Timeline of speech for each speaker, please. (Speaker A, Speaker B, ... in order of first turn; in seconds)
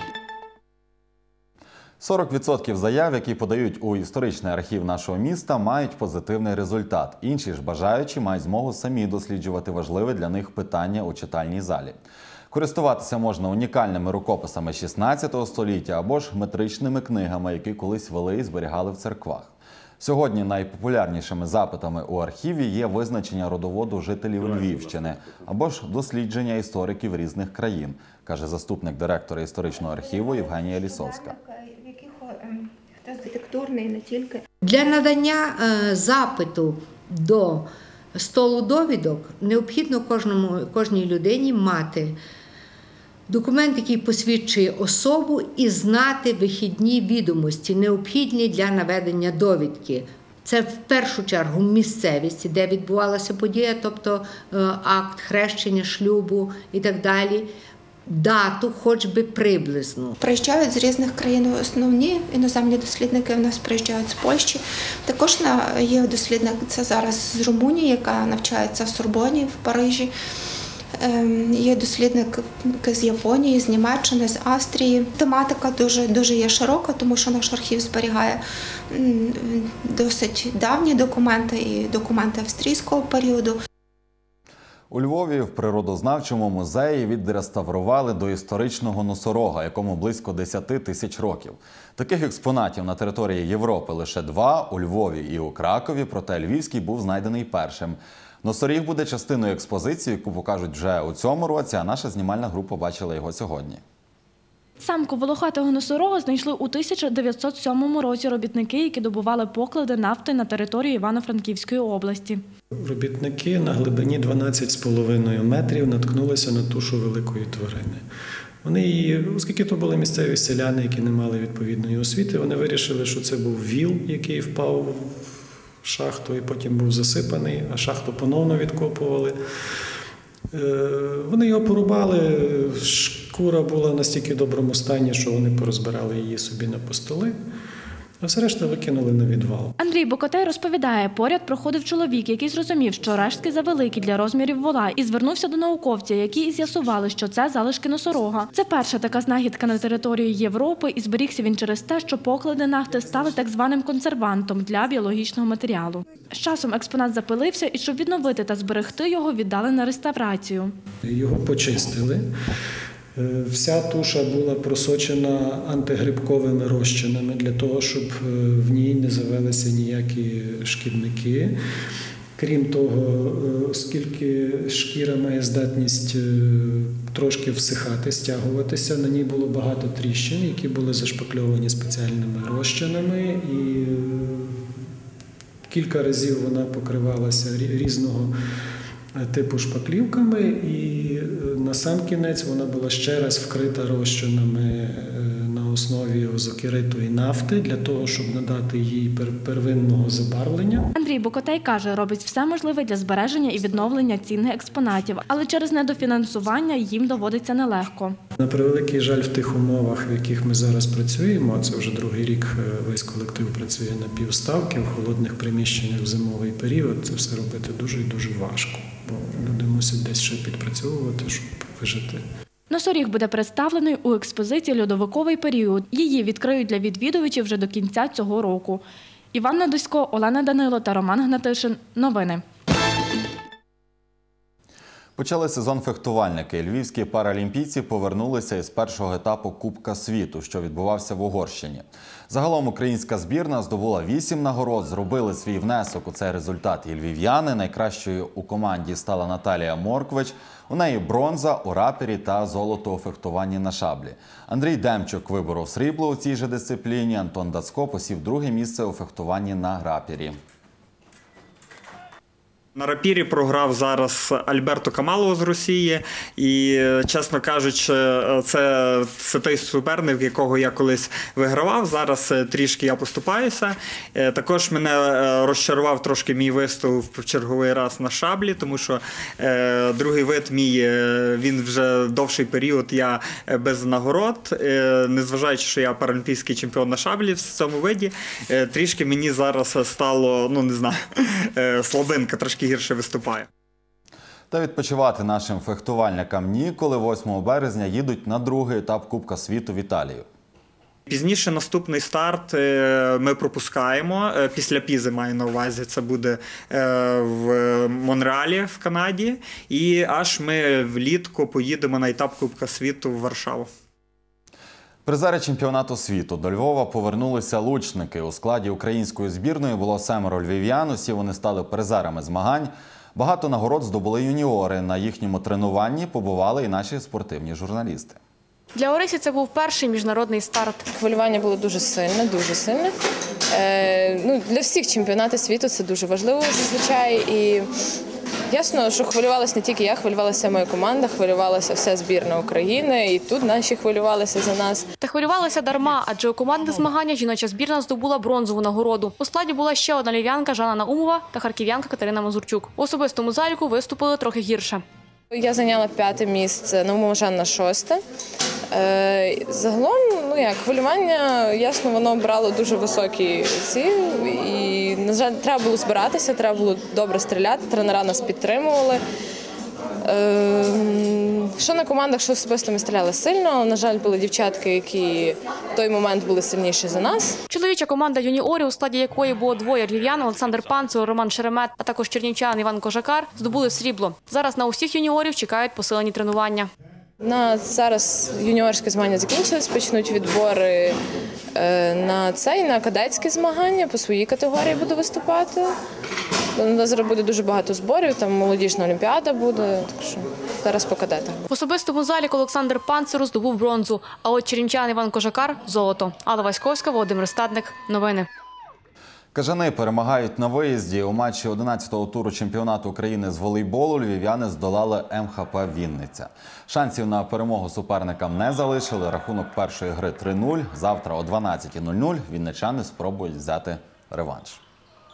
Speaker A: 2.0-12.0, 12.5-31.4, 84.9-103.8, 235.2-260.4, 294.5-300.2, 315.1-328.2, 409.3-424.6
Speaker B: 30.9-34.4, 60.2-70.1, 71.0-83.6
Speaker C: 34.6-42.2, 43.3-57.5, 58.1-60.1
Speaker D: 104.8-112.4, 139.8-160.7, 200.9-208.1, 222.7-232.4
Speaker E: 112.8-118.0, 118.6-125.3, 125.8-129.4, 130.5-137.3, 138.2-139.7, 161.0-162.2, 163.2-171.5, 172.4-184.6, 185.7-188.3, 189.2-200.9, 208.4-222.2
Speaker F: 262.8-291.0, 291.5-293.4, 301.1-313.7
Speaker G: 328.7-330.8, 345.0-354.8, 377.5-386.7, 401.5-408.3
Speaker H: 330.9-332.9, 333.5-337.6, 338.5-344.8, 355.3-358.0, 358.7-369.0, 370.1-377.4, 387.2-391.0, 391.5-395.7, 396.6-401.4